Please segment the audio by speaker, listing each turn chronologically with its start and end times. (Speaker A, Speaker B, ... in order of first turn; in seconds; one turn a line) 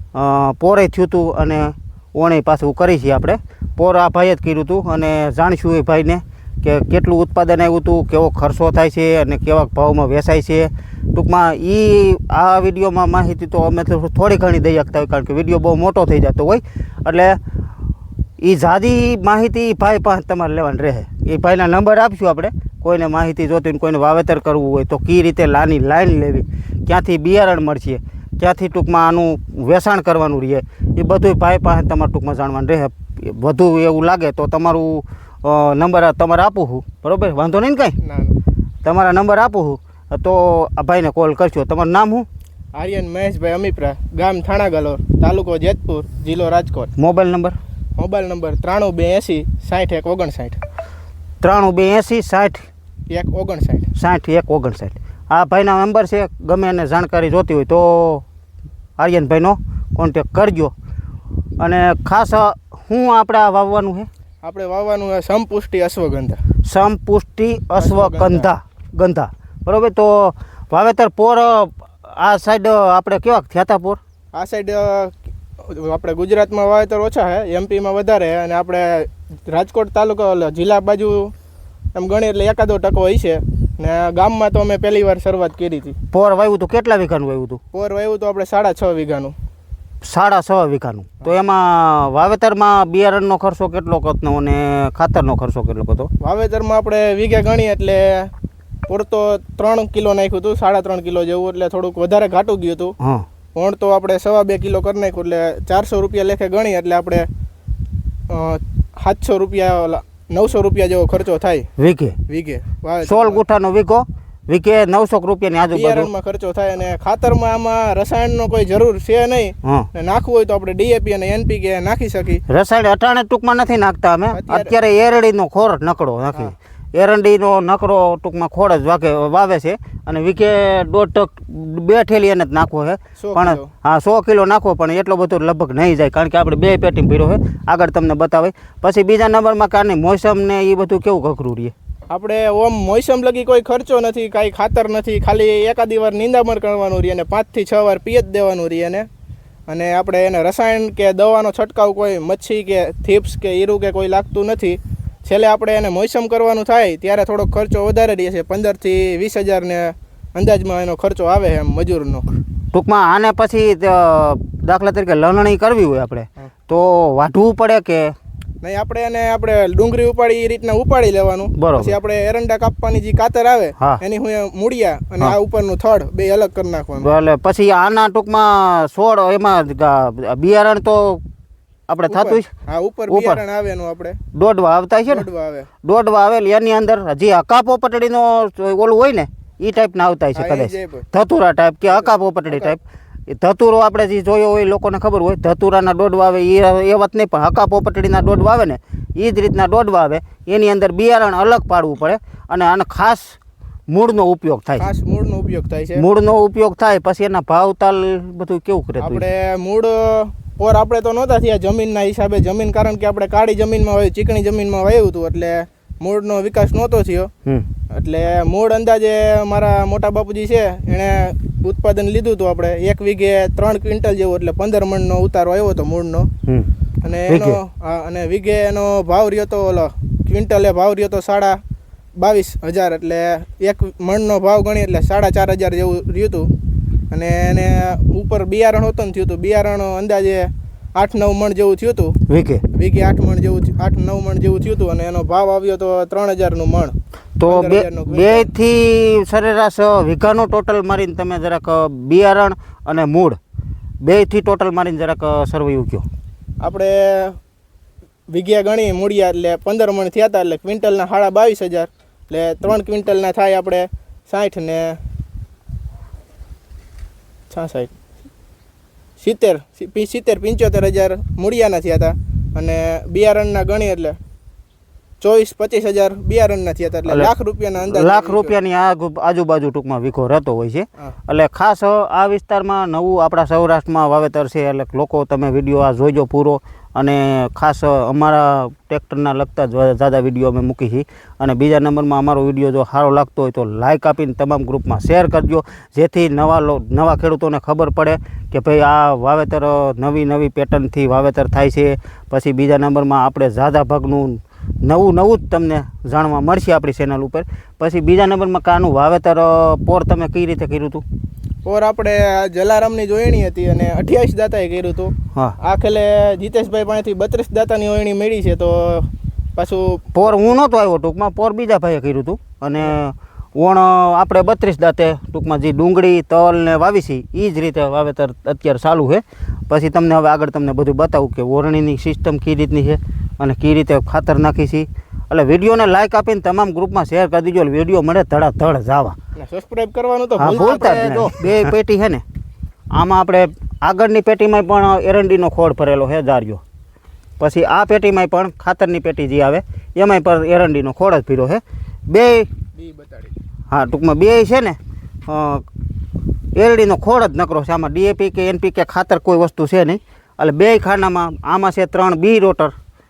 Speaker A: 0.1-17.4
Speaker A: 18.4-38.0
Speaker B: 38.0-38.4
Speaker A: 38.8-42.3
Speaker B: 42.7-46.9
Speaker A: 47.0-47.6
Speaker B: 48.0-50.6
Speaker A: 51.4-52.6
Speaker B: 53.1-53.9
Speaker A: 54.0-58.2
Speaker A: 59.0-60.7
Speaker A: 61.6-64.1
Speaker B: 64.4-66.4
Speaker A: 66.7-74.0
Speaker B: 67.8-68.5
Speaker B: 74.3-81.3
Speaker B: 81.9-86.0
Speaker A: 86.1-87.6
Speaker B: 87.7-89.3
Speaker A: 90.0-96.1
Speaker B: 96.2-98.3
Speaker B: 98.9-103.0
Speaker A: 103.0-103.2
Speaker B: 103.5-107.3
Speaker B: 108.3-111.7
Speaker A: 111.8-112.2
Speaker B: 112.3-113.4
Speaker A: 113.0-116.1
Speaker B: 115.7-122.4
Speaker A: 119.6-119.9
Speaker A: 122.5-141.8
Speaker B: 124.3-124.7
Speaker B: 133.2-133.7
Speaker B: 142.1-149.1
Speaker B: 149.7-162.2
Speaker A: 162.7-168.1
Speaker B: 168.6-177.1
Speaker A: 171.5-171.9
Speaker A: 177.0-181.2
Speaker A: 181.9-182.5
Speaker B: 182.1-184.2
Speaker A: 183.1-183.4
Speaker A: 184.3-185.2
Speaker B: 185.1-185.7
Speaker A: 185.8-203.4
Speaker B: 190.3-191.1
Speaker B: 191.9-192.7
Speaker A: 203.9-204.9
Speaker B: 204.8-206.0
Speaker A: 206.0-209.2
Speaker B: 209.0-217.3
Speaker B: 217.9-226.3
Speaker B: 227.0-231.6
Speaker A: 227.3-227.6
Speaker B: 232.2-236.5
Speaker B: 237.1-242.2
Speaker A: 242.3-242.6
Speaker B: 242.7-248.5
Speaker A: 247.4-253.4
Speaker A: 254.0-256.1
Speaker B: 256.6-257.4
Speaker B: 258.3-265.0
Speaker B: 267.5-267.9
Speaker B: 269.2-274.2
Speaker B: 275.2-278.6
Speaker A: 277.8-311.0
Speaker B: 311.6-320.1
Speaker A: 320.1-339.1
Speaker B: 339.4-341.5
Speaker A: 340.4-342.2
Speaker A: 342.9-346.6
Speaker A: 347.4-352.5
Speaker B: 352.8-353.4
Speaker A: 353.7-355.6
Speaker A: 356.6-362.7